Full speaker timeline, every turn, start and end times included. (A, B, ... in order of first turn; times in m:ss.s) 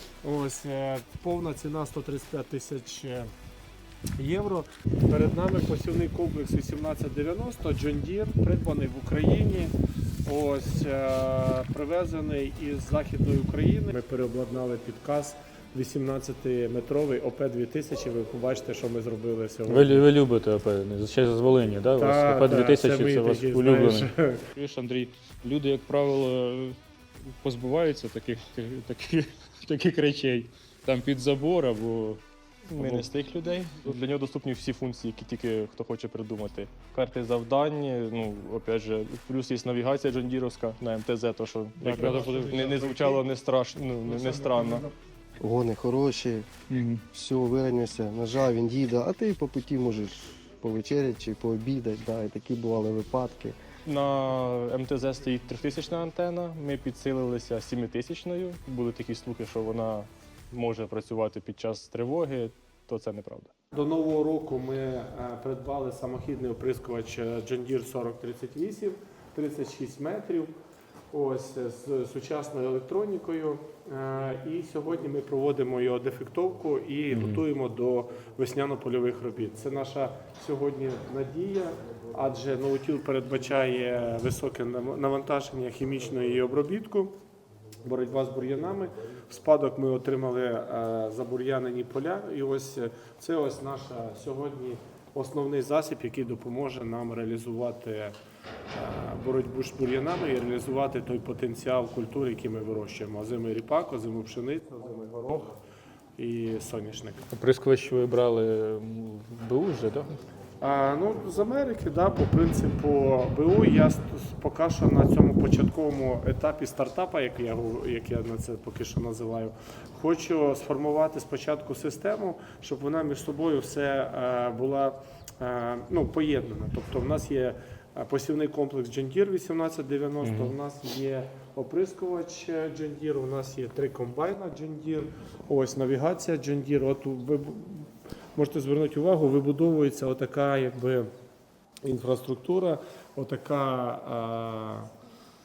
0:00.2-0:03.3 A
0:04.2-0:09.7 A
0:10.2-0:20.1 A
0:19.7-0:32.2 B
0:22.0-0:24.4 A
0:32.7-0:44.8 C
0:32.8-0:33.0 B
0:41.8-0:42.6 B
0:41.9-0:43.1 A
0:45.4-0:46.5 D
0:46.7-0:47.0 B
0:47.1-0:53.6 D
0:53.8-1:03.5 C
1:03.7-1:10.5 A
1:11.1-1:27.1 A
1:17.1-1:17.4 B
1:27.8-1:38.2 A
1:38.7-1:45.6 A
1:46.2-1:47.3 A
1:47.3-1:50.2 B
1:50.6-2:21.1 A
2:10.2-2:10.5 B
2:21.8-2:24.9 A